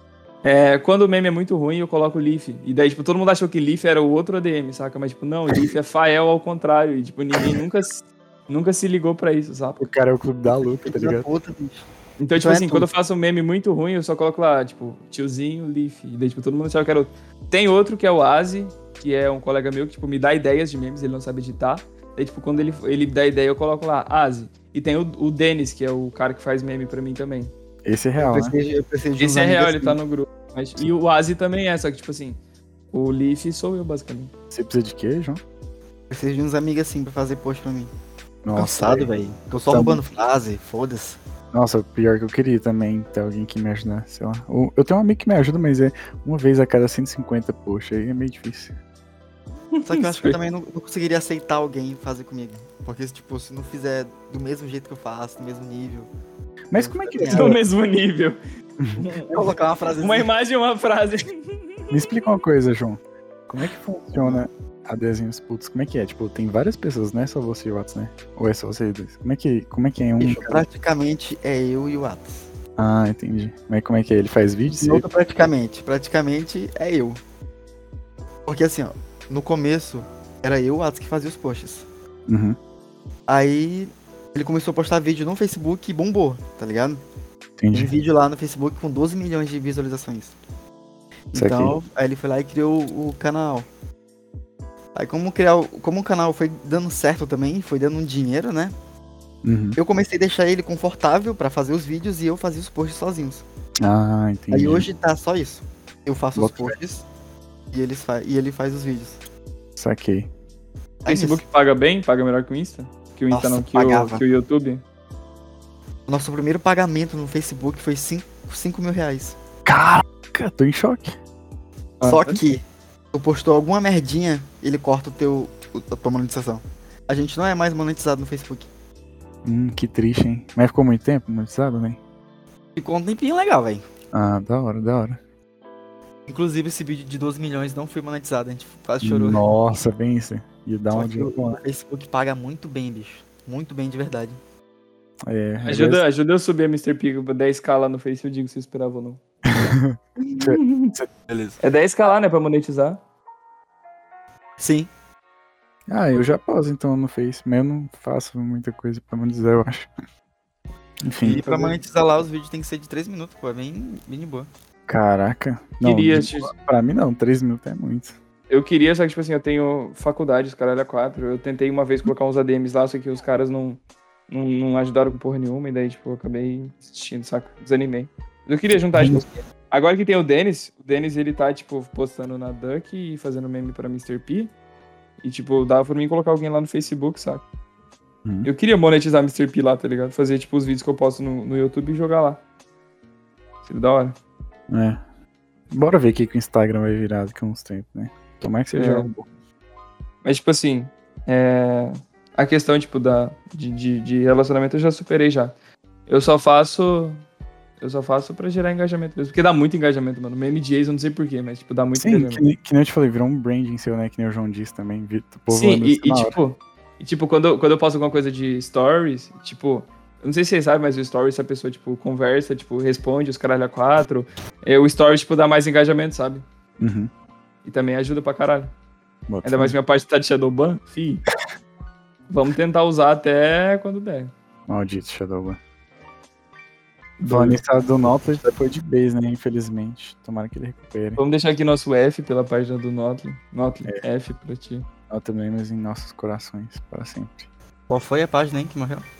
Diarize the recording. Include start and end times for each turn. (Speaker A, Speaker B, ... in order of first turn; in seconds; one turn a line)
Speaker A: 0.4-9.9
Speaker B: 9.8-11.3
Speaker C: 10.6-11.9
Speaker A: 12.2-27.5
Speaker C: 12.4-12.9
Speaker B: 27.9-28.6
Speaker C: 28.2-30.0
Speaker A: 29.2-32.4
Speaker A: 32.9-34.3
Speaker B: 34.5-35.4
Speaker C: 36.1-37.9
Speaker B: 38.4-39.1
Speaker C: 38.5-41.2
Speaker B: 39.7-40.0
Speaker B: 41.5-48.8
Speaker A: 49.7-50.4
Speaker C: 49.9-56.1
Speaker B: 56.7-57.6
Speaker C: 56.7-57.6
Speaker A: 57.3-58.4
Speaker A: 58.9-62.2
Speaker C: 59.3-60.3
Speaker B: 61.9-70.6
Speaker C: 70.2-72.5
Speaker B: 72.8-75.1
Speaker C: 74.7-77.2
Speaker C: 78.5-81.9
Speaker B: 82.3-82.6
Speaker C: 83.3-87.0
Speaker B: 87.6-87.9
Speaker C: 87.7-90.4
Speaker C: 91.3-93.7
Speaker B: 91.3-91.7
Speaker C: 95.0-98.7
Speaker B: 99.4-99.8
Speaker C: 99.8-103.4
Speaker B: 103.8-104.9
Speaker C: 104.5-107.1
Speaker B: 106.4-106.8
Speaker C: 107.7-109.2
Speaker B: 109.8-110.3
Speaker C: 111.0-111.4
Speaker A: 111.1-114.8
Speaker C: 113.3-114.2
Speaker C: 116.1-119.4
Speaker B: 119.7-121.2
Speaker A: 122.0-122.4
Speaker C: 122.0-122.6
Speaker C: 123.1-128.7
Speaker B: 129.4-132.0
Speaker C: 132.8-133.8
Speaker B: 134.1-135.2
Speaker C: 136.3-139.4
Speaker B: 139.0-141.6
Speaker C: 140.9-144.4
Speaker B: 145.3-146.0
Speaker A: 145.6-149.2
Speaker B: 149.5-151.1
Speaker A: 150.2-150.9
Speaker C: 151.3-151.6
Speaker A: 151.6-153.0
Speaker C: 154.6-154.9
Speaker B: 155.9-159.9
Speaker B: 161.0-161.8
Speaker C: 161.2-164.5
Speaker B: 164.9-168.2
Speaker A: 165.8-166.5
Speaker A: 168.5-184.5
Speaker A: 185.2-187.4
Speaker A: 188.4-192.4
Speaker A: 193.7-194.2
Speaker B: 194.7-195.0
Speaker B: 195.7-199.2
Speaker A: 198.7-199.1
Speaker A: 200.2-205.5
Speaker A: 206.1-207.2
Speaker A: 207.8-212.4
Speaker B: 212.0-216.4
Speaker A: 215.5-226.5
Speaker B: 226.8-227.1
Speaker A: 227.7-228.7
Speaker B: 229.3-229.8
Speaker A: 229.4-231.2
Speaker A: 232.3-234.3
Speaker B: 234.7-235.6
Speaker A: 237.2-237.6
Speaker B: 237.3-241.2
Speaker A: 241.2-244.9
Speaker B: 245.1-247.5
Speaker C: 247.9-249.1